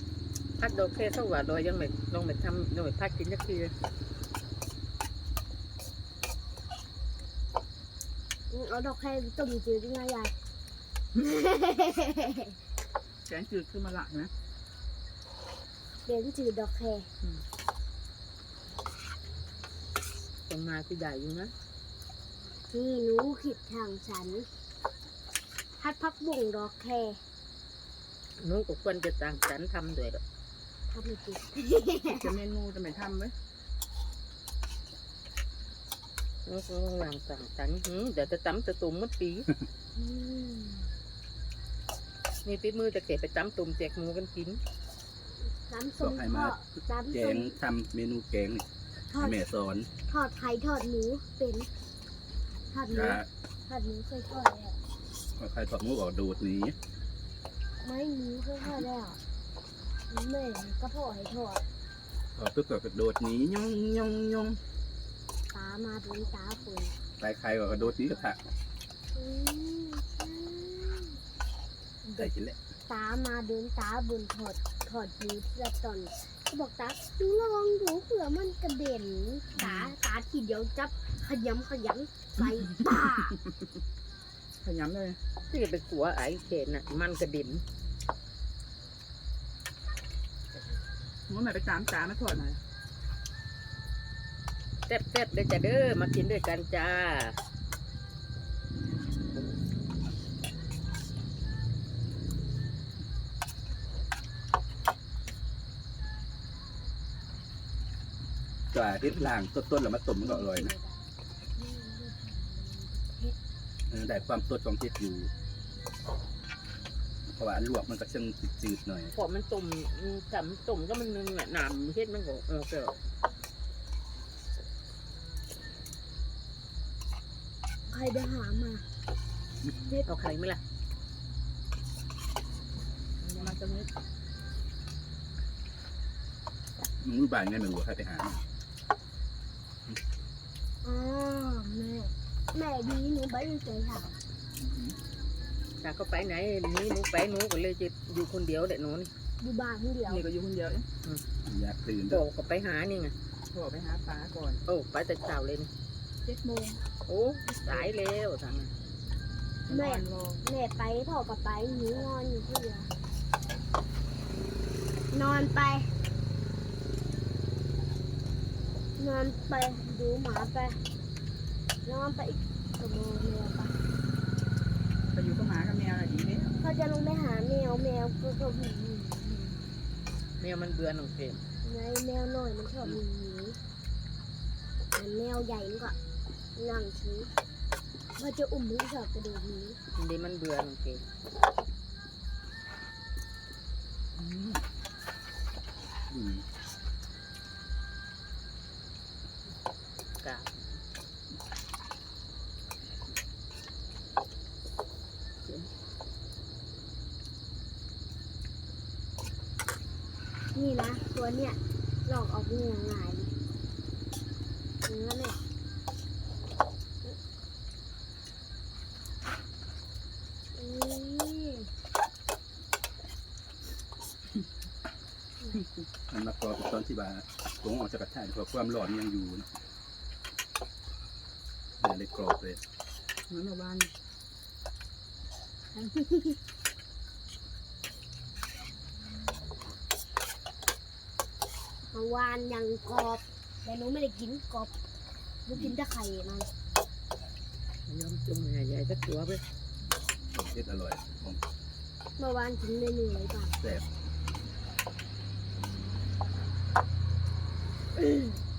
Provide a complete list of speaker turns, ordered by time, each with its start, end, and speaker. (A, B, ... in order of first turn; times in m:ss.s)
0:00.6-0:03.7 A
0:08.5-0:10.3 B
0:11.2-0:12.5 B
0:13.3-0:14.3 C
0:16.0-0:17.1 B
0:20.5-0:21.5 A
0:22.7-0:24.5 B
0:25.8-0:27.2 B
0:28.4-0:30.2 A
0:30.9-0:32.4 B
0:32.1-0:33.3 C
0:36.4-0:39.5 A
0:39.9-0:40.9 B
0:42.4-0:44.6 A
0:45.5-0:47.6 B
0:46.0-0:48.6 D
0:49.1-0:49.4 B
0:49.2-0:49.9 D
0:50.1-0:51.7 B
0:52.7-0:54.8 B
0:52.9-0:53.3 D
0:55.4-0:56.8 D
0:57.8-0:59.2 B
1:00.1-1:01.6 B
1:02.4-1:04.6 D
1:05.5-1:06.9 B
1:07.2-1:08.4 D
1:09.1-1:11.2 B
1:12.0-1:12.3 B
1:12.2-1:12.6 D
1:12.9-1:23.3 B
1:19.5-1:19.8 D
1:22.8-1:23.5 C
1:24.6-1:25.2 C
1:25.5-1:27.6 A
1:31.3-1:32.6 C
1:34.9-1:37.4 A
1:48.7-1:50.7 D
1:50.2-1:51.0 B
1:51.6-1:53.4 B
1:53.9-1:55.3 D
1:57.3-1:59.1 D
1:59.1-2:02.9 A
2:07.9-2:08.8 B
2:09.8-2:10.1 B
2:10.0-2:10.6 A
2:13.2-2:13.9 C
2:17.0-2:18.4 D
2:20.8-2:24.2 B
2:24.6-2:24.9 D
2:25.8-2:29.1 A
2:29.4-2:30.2 B
2:30.1-2:30.9 C
2:31.4-2:32.2 D
2:32.1-2:33.1 A
2:33.5-2:34.6 C
2:34.6-2:35.7 A
2:36.2-2:36.8 C
2:37.0-2:38.7 A
2:39.7-2:40.4 C
2:39.7-2:42.9 B
2:45.1-2:45.9 B
2:49.0-2:50.8 B
2:51.8-2:53.8 B
2:55.1-2:56.5 C
2:56.6-2:59.6 B
3:00.4-3:01.4 A
3:01.6-3:03.6 B
3:04.9-3:06.0 B
3:06.6-3:07.3 B
3:08.2-3:09.8 B
3:10.0-3:11.0 A
3:14.2-3:14.6 D
3:16.1-3:16.4 D
3:20.2-3:20.6 A
3:30.5-3:33.3 B
3:34.8-3:35.4 B
3:40.6-3:41.7 B
3:46.1-3:49.5 D
3:51.8-3:52.6 D
3:53.3-3:53.9 C
3:55.7-3:56.4 B
4:01.9-4:04.8 B
4:05.4-4:06.5 B
4:07.9-4:09.4 A
4:10.3-4:11.4 D
4:12.2-4:13.5 B
4:13.6-4:13.9 D
4:18.0-4:18.3 B